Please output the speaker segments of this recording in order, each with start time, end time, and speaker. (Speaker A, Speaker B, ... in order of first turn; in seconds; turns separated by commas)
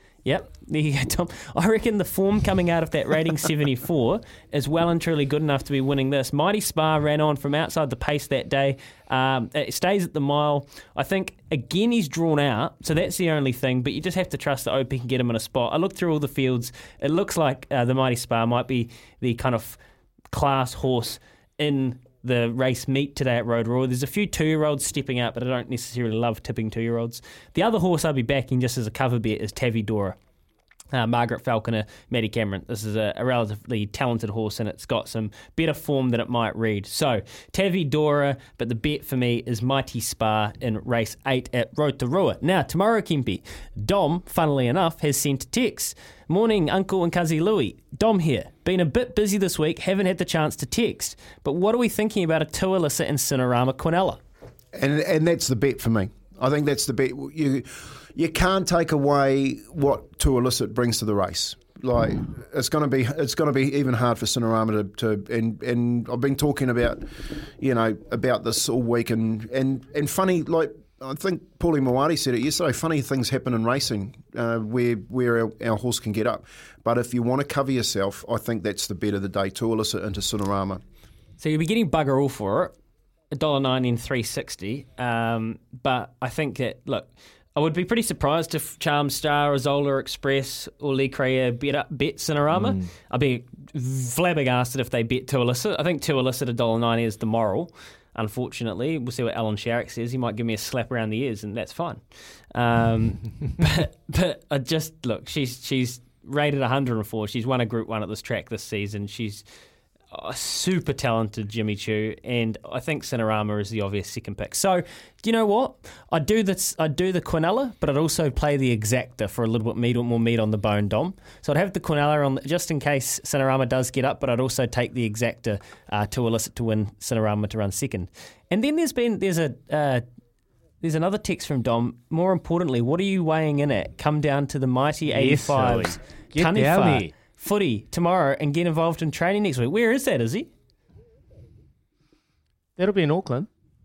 Speaker A: 0.2-19.8, Speaker A: 20.3-30.2, Speaker A: 30.9-54.2, Speaker B: 54.7-67.1, Speaker B: 67.6-80.8, Speaker A: 81.4-82.7, Speaker A: 83.3-109.5, Speaker C: 92.5-92.9, Speaker A: 110.1-130.0, Speaker A: 130.8-140.5, Speaker C: 135.1-137.1, Speaker C: 142.8-143.5